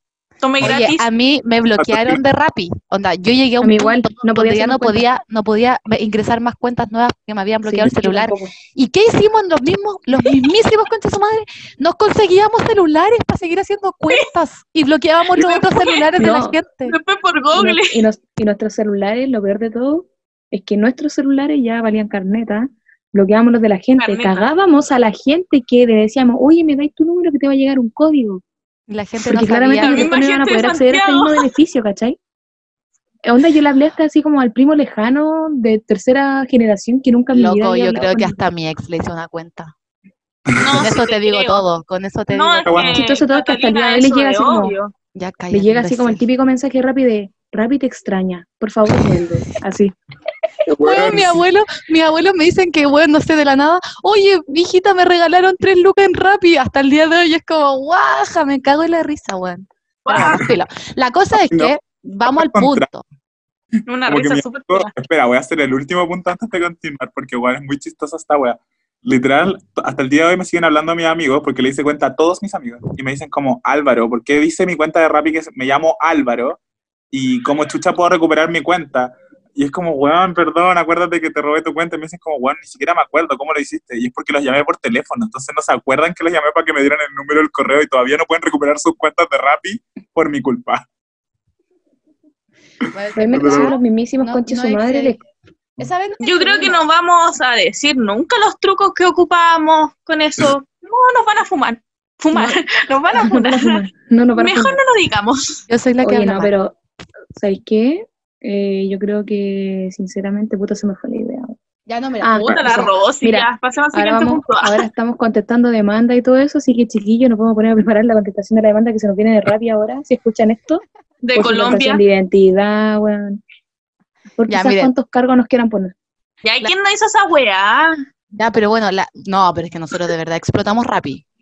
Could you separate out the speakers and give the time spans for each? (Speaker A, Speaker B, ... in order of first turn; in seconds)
Speaker A: 0.4-1.1, 15.3-16.1, 16.8-18.0, 24.0-24.5, 29.8-31.5, 40.6-41.6, 42.3-44.9, 60.0-60.4, 63.9-65.0, 96.2-103.8, 104.3-105.7, 112.4-114.8, 121.2-122.0, 126.4-128.0
Speaker B: 0.6-16.9, 28.9-30.1, 37.3-39.7, 40.7-42.9, 45.1-46.2, 50.8-63.0, 92.8-95.2, 95.8-96.8, 105.7-106.5, 111.9-112.9, 124.5-124.9, 128.3-131.2
Speaker C: 1.8-2.2, 40.5-40.8, 42.6-43.0, 50.7-51.4, 60.1-60.5, 61.3-61.7, 62.3-62.9, 64.1-76.6, 77.1-90.8, 93.3-93.7
Speaker D: 3.6-5.1, 7.6-8.5, 16.2-16.6, 17.5-28.4, 29.2-32.2, 33.2-38.4, 42.9-44.7, 45.5-49.9, 93.2-95.2, 102.3-102.6, 103.1-104.8, 106.0-106.7, 107.3-111.5, 112.2-120.8, 121.3-123.4, 124.4-125.9